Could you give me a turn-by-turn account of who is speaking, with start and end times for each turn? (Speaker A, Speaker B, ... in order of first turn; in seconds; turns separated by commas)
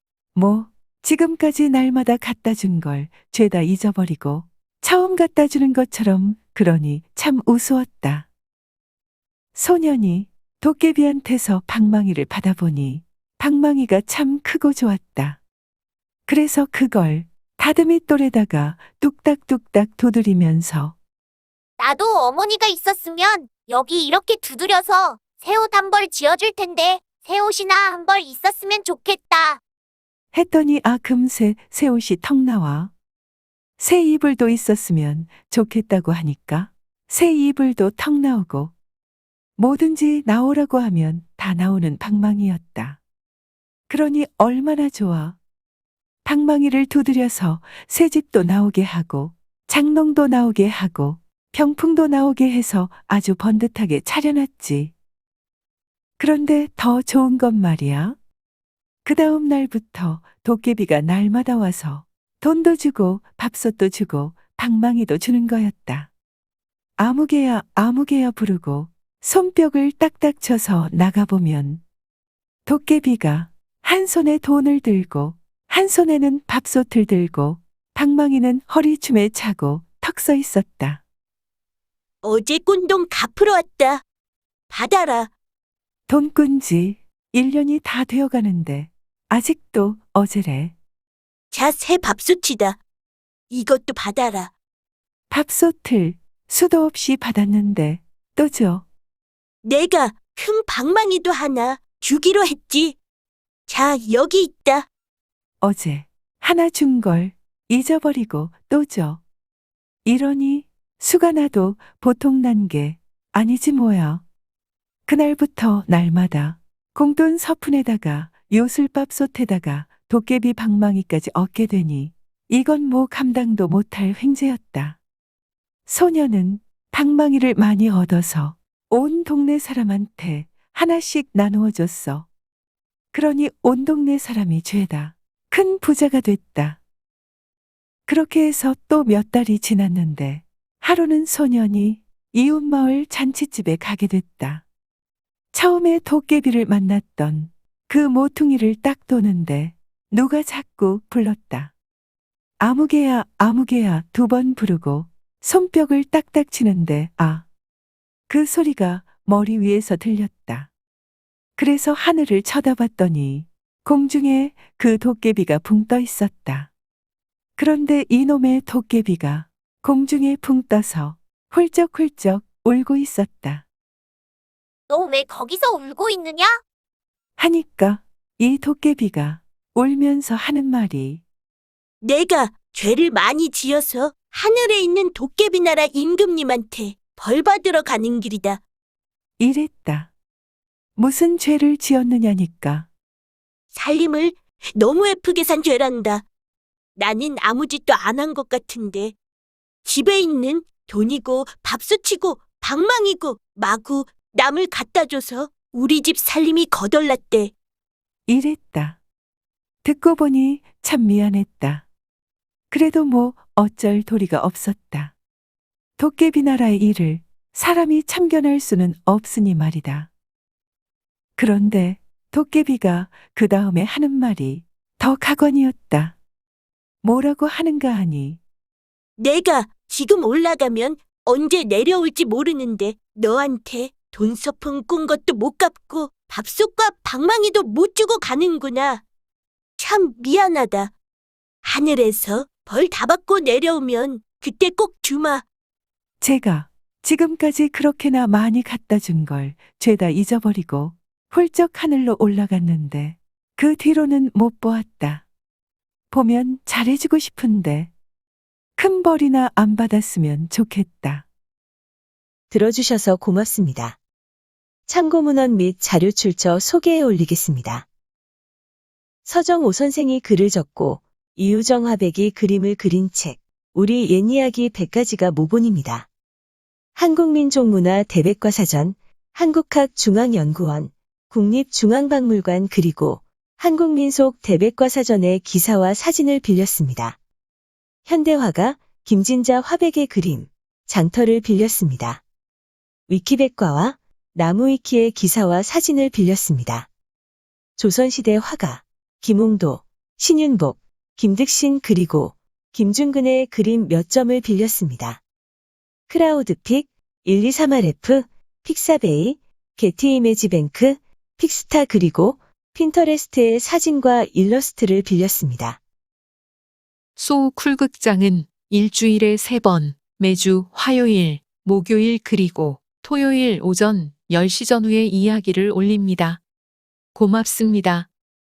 Speaker A: 0.4-8.3, Speaker A: 9.6-15.4, Speaker A: 16.3-21.0, Speaker B: 21.8-29.6, Speaker A: 30.3-32.9, Speaker A: 33.8-38.7, Speaker A: 39.6-43.0, Speaker A: 43.9-45.4, Speaker A: 46.2-54.9, Speaker A: 56.2-58.2, Speaker A: 59.0-66.1, Speaker A: 67.0-71.8, Speaker A: 72.7-81.0, Speaker C: 82.2-84.0, Speaker C: 84.7-85.3, Speaker A: 86.1-90.8, Speaker C: 91.5-92.8, Speaker C: 93.5-94.5, Speaker A: 95.3-98.9, Speaker C: 99.6-103.0, Speaker C: 103.7-104.9, Speaker A: 105.6-109.2, Speaker A: 110.0-114.2, Speaker A: 115.1-125.0, Speaker A: 125.9-132.3, Speaker A: 133.1-136.8, Speaker A: 138.1-144.7, Speaker A: 145.5-151.7, Speaker A: 152.6-157.5, Speaker A: 158.3-160.7, Speaker A: 161.6-166.7, Speaker A: 167.6-173.7, Speaker B: 174.9-176.6, Speaker A: 177.4-181.2, Speaker C: 182.0-188.6, Speaker A: 189.4-190.1, Speaker A: 191.0-192.9, Speaker C: 193.7-196.2, Speaker C: 197.0-199.2, Speaker C: 199.8-207.5, Speaker A: 208.3-209.0, Speaker A: 209.8-211.9, Speaker A: 212.7-215.1, Speaker A: 216.0-220.1, Speaker A: 221.4-226.2, Speaker A: 227.0-228.4, Speaker C: 229.2-239.0, Speaker C: 239.8-240.9, Speaker C: 241.7-245.4, Speaker A: 246.2-255.3, Speaker A: 256.1-257.9, Speaker A: 258.8-261.3, Speaker D: 262.5-264.0, Speaker D: 264.9-267.9, Speaker D: 269.3-276.1, Speaker D: 277.0-287.2, Speaker D: 288.1-292.2, Speaker D: 293.1-296.9, Speaker D: 297.8-305.2, Speaker D: 306.1-315.8, Speaker E: 317.2-326.4, Speaker E: 327.1-328.1